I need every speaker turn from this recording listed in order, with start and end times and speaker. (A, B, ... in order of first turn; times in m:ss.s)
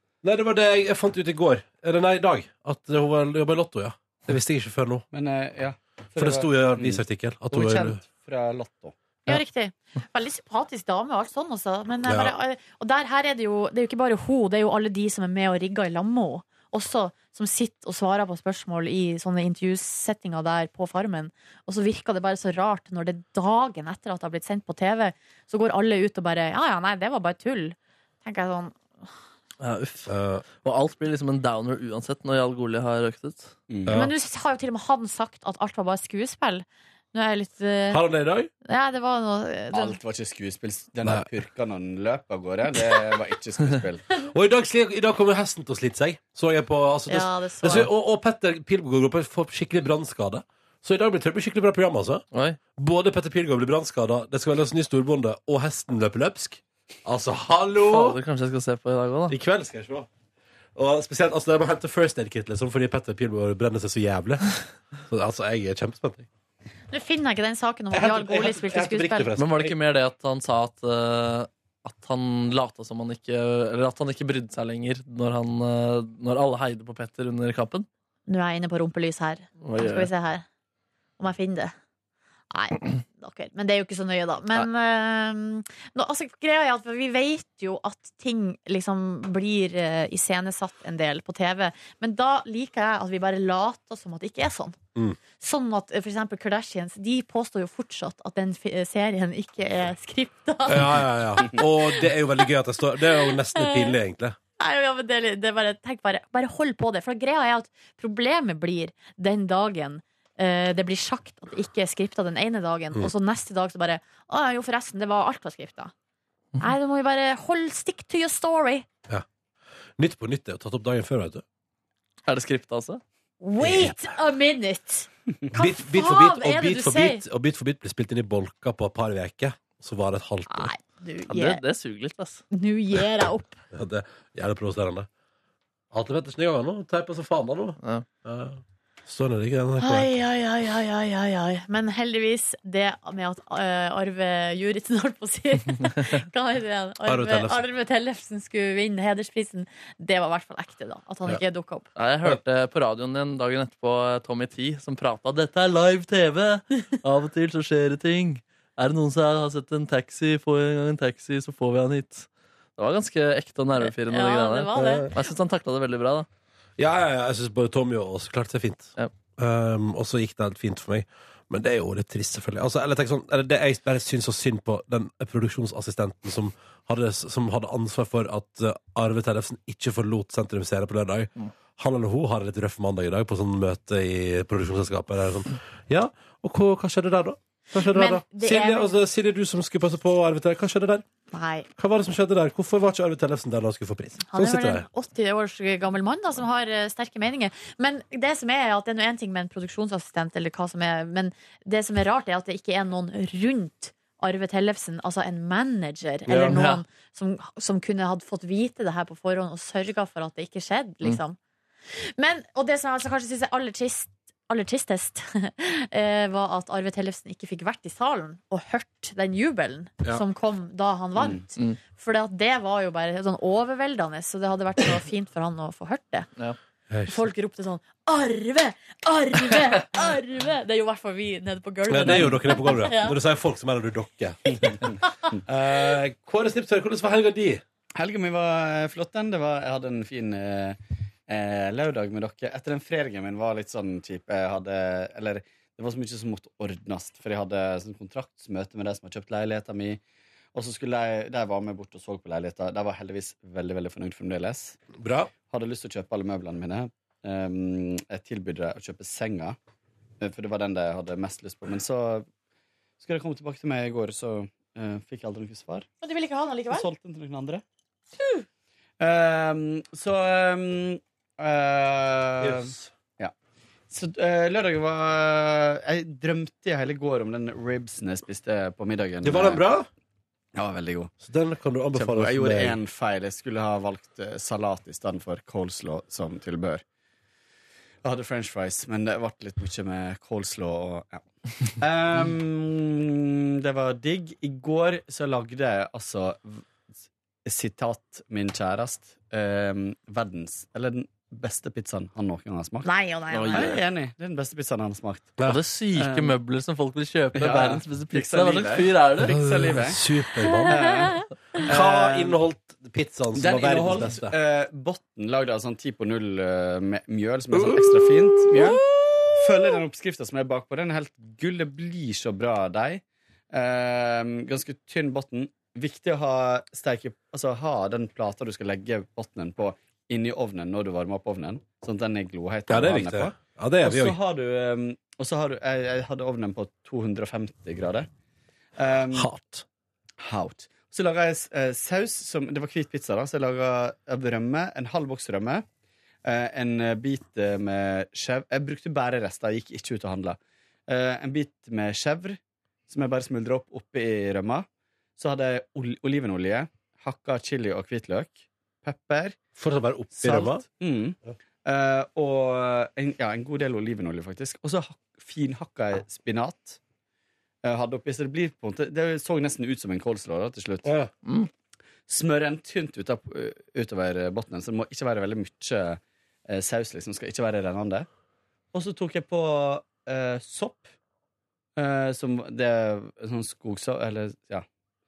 0:00.2-0:05.0 A
0:05.1-0:08.9 B
0:06.2-0:08.0 A
0:09.2-0:29.0 C
0:12.0-0:12.3 A
0:29.6-0:33.5 D
0:30.1-0:30.4 A
0:33.7-0:34.0 B
0:33.8-0:34.1 A
0:33.9-0:38.0 C
0:37.9-0:38.5 A
0:38.6-0:40.0 C
0:39.7-0:44.0 B
0:44.2-0:52.2 A
0:47.1-0:47.9 C
0:52.3-0:52.6 D
0:52.8-0:58.2 A
0:57.9-0:59.4 D
0:59.3-1:00.1 A
1:00.7-1:06.3 A
1:06.9-1:09.3 C
1:07.9-1:09.7 A
1:09.4-1:17.9 D
1:18.3-1:20.4 C
1:19.6-1:20.1 D
1:21.2-1:21.7 C
1:22.5-1:34.8 C
1:35.4-1:44.0 C
1:40.7-1:44.4 A
1:44.6-1:55.9 C
1:56.6-1:58.8 C
2:00.0-2:01.4 A
2:02.2-2:03.0 D
2:03.4-2:07.2 C
2:03.6-2:03.9 A
2:05.5-2:10.7 A
2:10.5-2:11.6 C
2:11.3-2:12.4 D
2:12.5-2:13.6 C
2:13.7-2:15.1 A
2:15.9-2:20.1 A
2:17.8-2:18.0 D
2:19.8-2:31.9 C
2:27.0-2:27.6 A
2:32.0-2:46.3 D
2:43.8-2:45.1 C
2:44.7-2:45.1 A
2:46.8-3:11.0 A
3:07.8-3:08.9 C
3:11.3-3:11.7 C
3:11.8-3:14.9 A
3:14.3-3:31.4 C
3:26.3-3:26.6 A
3:26.4-3:26.8 D
3:31.9-3:46.3 C
3:41.2-3:41.4 B
3:46.9-3:47.3 A
3:47.0-3:53.2 C
3:51.9-3:54.9 A
3:55.5-3:57.6 A
3:57.9-4:10.0 B
4:10.5-4:14.8 B
4:15.0-4:15.3 A
4:15.4-4:19.6 B
4:20.2-4:22.3 B
4:23.0-4:25.9 B
4:26.0-4:26.9 C
4:26.7-4:27.6 B
4:29.0-4:33.3 B
4:32.4-4:32.9 A
4:33.9-4:39.6 B
4:39.2-4:39.9 A
4:40.5-4:41.1 B
4:41.2-4:42.8 A
4:41.9-4:46.8 B
4:48.0-4:51.2 B
4:51.8-4:56.6 B
4:57.4-5:05.4 B
5:02.8-5:03.8 C
5:03.4-5:03.8 D
5:05.4-5:09.4 D
5:05.9-5:06.3 B
5:07.3-5:10.0 B
5:09.3-5:10.8 A
5:10.4-5:11.2 C
5:10.6-5:12.4 B
5:11.7-5:14.3 A
5:13.3-5:38.1 B
5:17.5-5:18.0 A
5:32.7-5:34.2 A
5:38.8-5:39.3 B
5:39.1-5:39.6 A
5:40.2-5:45.6 B
5:46.2-5:59.4 B
5:59.6-6:00.6 A
6:00.1-6:06.8 B
6:07.6-6:10.9 B
6:10.8-6:11.1 A
6:11.2-6:11.5 D
6:12.1-6:18.1 B
6:18.7-6:20.9 B
6:21.8-6:24.6 B